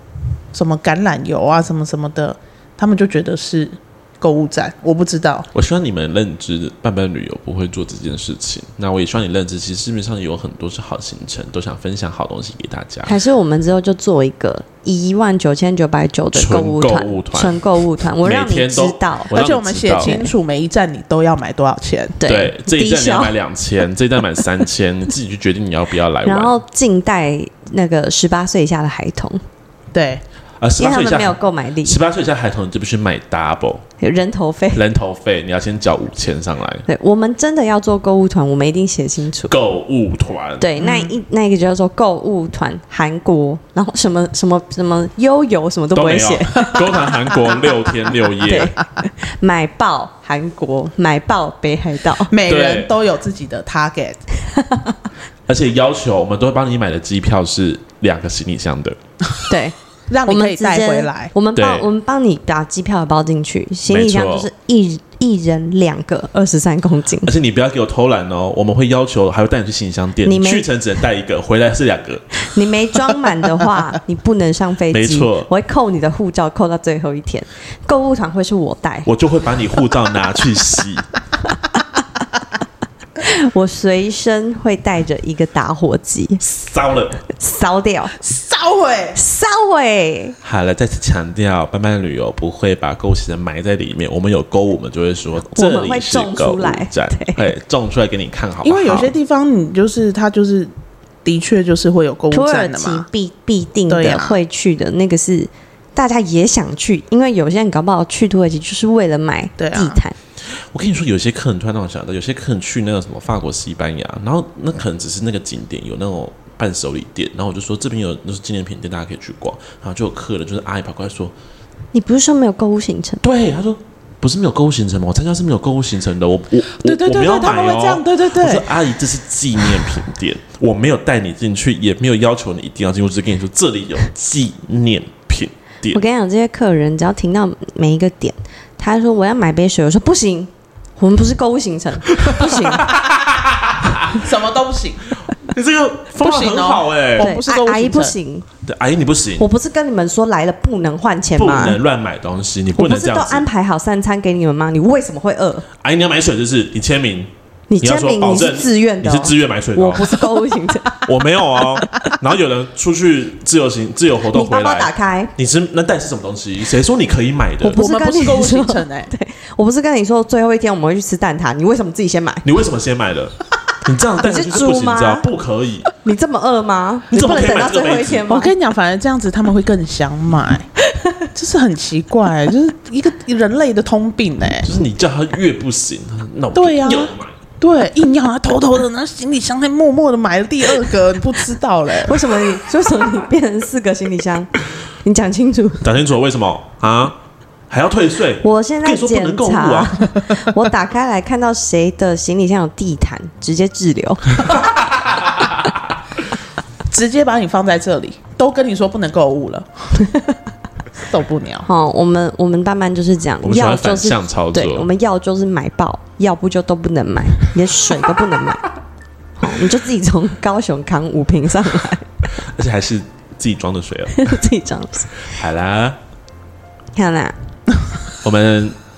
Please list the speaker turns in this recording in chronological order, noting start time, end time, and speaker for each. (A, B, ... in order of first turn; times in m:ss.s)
0:00.5-0:05.5 A
0:05.5-0:13.2 B
0:13.1-0:19.4 C
0:16.3-0:17.6 B
0:18.2-0:20.1 B
0:19.3-0:22.2 A
0:20.0-0:20.3 C
0:22.2-0:23.3 C
0:22.2-0:26.5 B
0:26.2-0:29.4 C
0:29.9-0:30.2 A
0:30.6-0:33.8 B
0:30.8-0:32.0 C
0:34.0-0:34.8 C
0:34.7-0:36.9 B
0:36.9-0:39.5 C
0:39.5-0:40.8 B
0:40.6-0:46.8 C
0:40.8-0:41.2 A
0:45.9-0:48.7 B
0:48.4-0:52.3 C
0:52.3-0:54.2 A
0:52.5-0:52.9 B
0:54.5-0:54.9 C
0:55.5-0:59.0 B
0:59.5-0:59.8 C
1:00.1-1:01.3 A
1:00.3-1:07.3 C
1:01.6-1:01.9 B
1:03.9-1:04.5 B
1:07.2-1:12.4 B
1:10.2-1:10.7 C
1:12.4-1:19.1 C
1:14.9-1:15.5 B
1:19.0-1:21.1 B
1:23.2-1:26.4 C
1:26.4-1:27.2 B
1:27.3-1:28.2 C
1:28.2-1:29.2 A
1:29.2-1:30.4 C
1:30.4-1:39.1 B
1:35.5-1:37.5 C
1:38.6-1:40.7 A
1:41.2-1:43.1 A
1:42.3-1:50.2 C
1:43.9-1:44.4 A
1:49.6-1:50.0 A
1:50.5-2:01.4 B
2:01.9-2:03.2 C
2:03.2-2:16.0 B
2:06.8-2:08.7 A
2:15.9-2:22.9 C
2:22.1-2:24.2 B
2:24.1-2:25.1 A
2:25.4-2:27.3 B
2:26.2-2:28.2 A
2:27.2-2:28.5 C
2:28.6-2:29.5 B
2:29.4-2:31.8 C
2:31.4-2:33.5 B
2:32.7-2:35.7 C
2:35.8-2:40.2 B
2:37.7-2:41.1 C
2:41.0-2:47.8 B
2:44.3-2:45.3 C
2:47.6-2:52.5 C
2:47.8-2:49.1 A
2:52.4-2:55.9 B
2:54.2-2:55.2 C
2:56.0-2:58.5 C
2:57.1-2:58.3 B
2:58.3-3:00.7 A
3:00.9-3:01.2 C
3:01.3-3:04.7 A
3:04.6-3:07.4 B
3:06.6-3:12.2 A
3:12.0-3:14.5 C
3:15.0-3:15.9 C
3:15.8-3:17.2 B
3:17.7-3:20.1 B
3:18.4-3:24.6 C
3:24.6-3:25.8 B
3:26.9-3:29.9 A
3:30.0-3:30.4 C
3:31.0-3:31.7 A
3:31.6-3:38.7 C
3:33.4-3:34.9 B
3:39.4-3:42.1 C
3:42.4-3:44.4 B
3:44.1-3:45.3 C
3:45.2-3:46.0 B
3:47.0-3:47.4 C
3:48.2-3:48.8 B